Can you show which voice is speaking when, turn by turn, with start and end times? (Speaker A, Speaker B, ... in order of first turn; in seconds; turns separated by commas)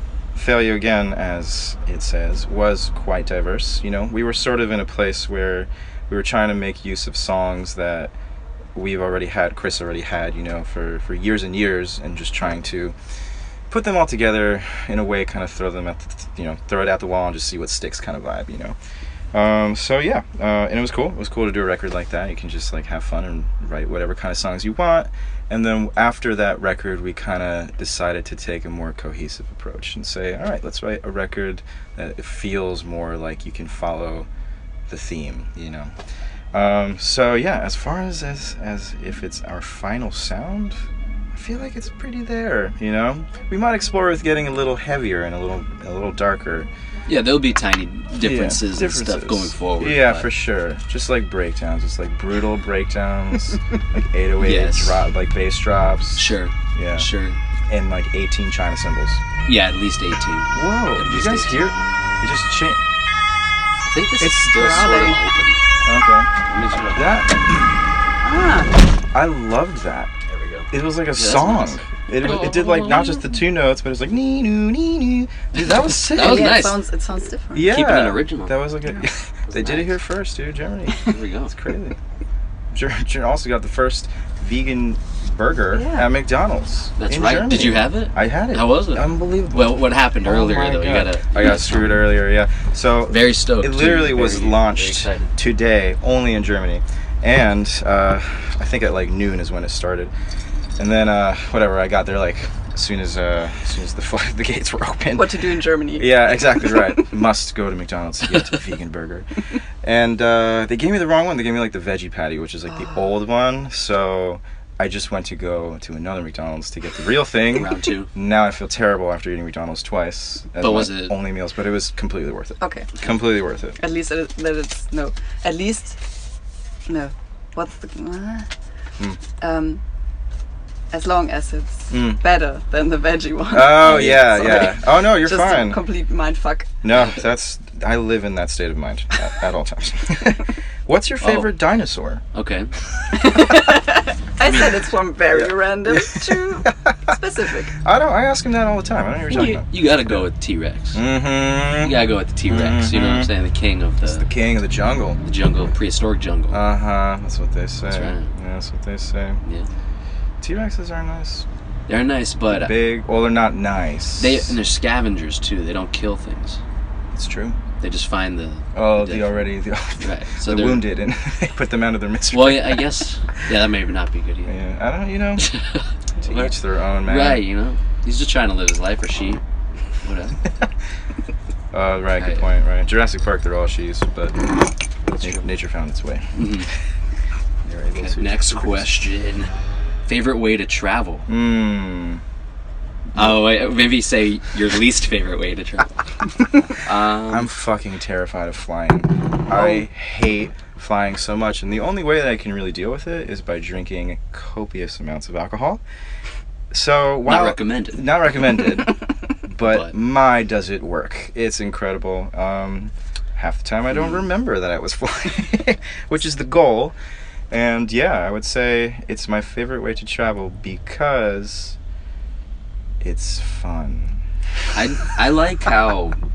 Speaker A: 0.3-8.1, Speaker A: 8.7-12.9, Speaker A: 13.7-18.8, Speaker A: 19.3-34.3, Speaker A: 34.9-35.9, Speaker A: 36.5-46.7, Speaker B: 47.1-50.3, Speaker A: 48.2-57.1, Speaker B: 54.4-55.0, Speaker B: 56.1-57.4, Speaker A: 57.7-59.2, Speaker B: 59.5-61.8, Speaker A: 60.5-62.8, Speaker B: 63.9-65.6, Speaker A: 64.2-65.1, Speaker C: 64.3-65.2, Speaker A: 65.8-66.3, Speaker B: 66.5-67.1, Speaker A: 66.9-67.7, Speaker C: 68.2-68.7, Speaker A: 69.1-70.1, Speaker B: 70.3-73.1, Speaker A: 70.7-76.7, Speaker B: 75.6-76.8, Speaker C: 76.2-77.7, Speaker A: 77.5-82.0, Speaker B: 77.6-78.5, Speaker B: 79.5-79.9, Speaker B: 81.0-81.5, Speaker A: 82.7-100.1, Speaker C: 85.7-86.1, Speaker B: 87.0-92.1, Speaker B: 93.1-95.3, Speaker A: 100.8-105.4, Speaker C: 105.1-107.1, Speaker A: 105.9-109.3, Speaker A: 109.8-123.8, Speaker B: 117.5-118.1, Speaker B: 120.6-121.2, Speaker C: 122.6-122.9, Speaker C: 123.8-126.0, Speaker C: 126.9-128.5, Speaker C: 129.4-129.8, Speaker C: 130.9-136.7, Speaker A: 131.9-132.2, Speaker A: 133.5-135.8, Speaker B: 133.8-134.6, Speaker A: 136.8-142.2, Speaker B: 141.2-141.5, Speaker B: 142.3-142.7, Speaker C: 143.1-147.7, Speaker A: 143.2-143.5, Speaker A: 145.3-147.1, Speaker A: 147.8-150.2, Speaker B: 149.3-151.0, Speaker A: 150.9-153.3, Speaker B: 151.8-154.2, Speaker A: 154.0-155.2, Speaker B: 155.2-156.6, Speaker A: 156.5-159.4, Speaker B: 157.9-158.3, Speaker A: 160.4-161.4, Speaker B: 161.9-162.7, Speaker A: 162.5-164.6, Speaker B: 164.2-166.6, Speaker A: 167.1-167.6, Speaker B: 167.8-169.5, Speaker A: 168.7-172.8, Speaker B: 170.0-170.9, Speaker B: 172.3-174.5, Speaker A: 174.4-175.5, Speaker B: 175.4-179.4, Speaker A: 176.2-177.4, Speaker B: 180.0-180.4, Speaker A: 181.7-184.4, Speaker B: 182.2-182.4, Speaker B: 185.1-185.5, Speaker A: 185.2-186.5, Speaker B: 186.3-186.7, Speaker A: 187.6-188.9, Speaker B: 187.9-189.5, Speaker B: 190.1-191.3, Speaker A: 191.3-192.2, Speaker A: 193.1-193.4, Speaker B: 193.1-196.0, Speaker B: 196.7-197.5, Speaker A: 197.3-205.8, Speaker A: 206.7-216.9, Speaker B: 207.2-208.1, Speaker B: 209.6-209.9, Speaker B: 213.9-214.2, Speaker A: 217.5-221.8, Speaker A: 223.0-224.2, Speaker B: 224.7-226.2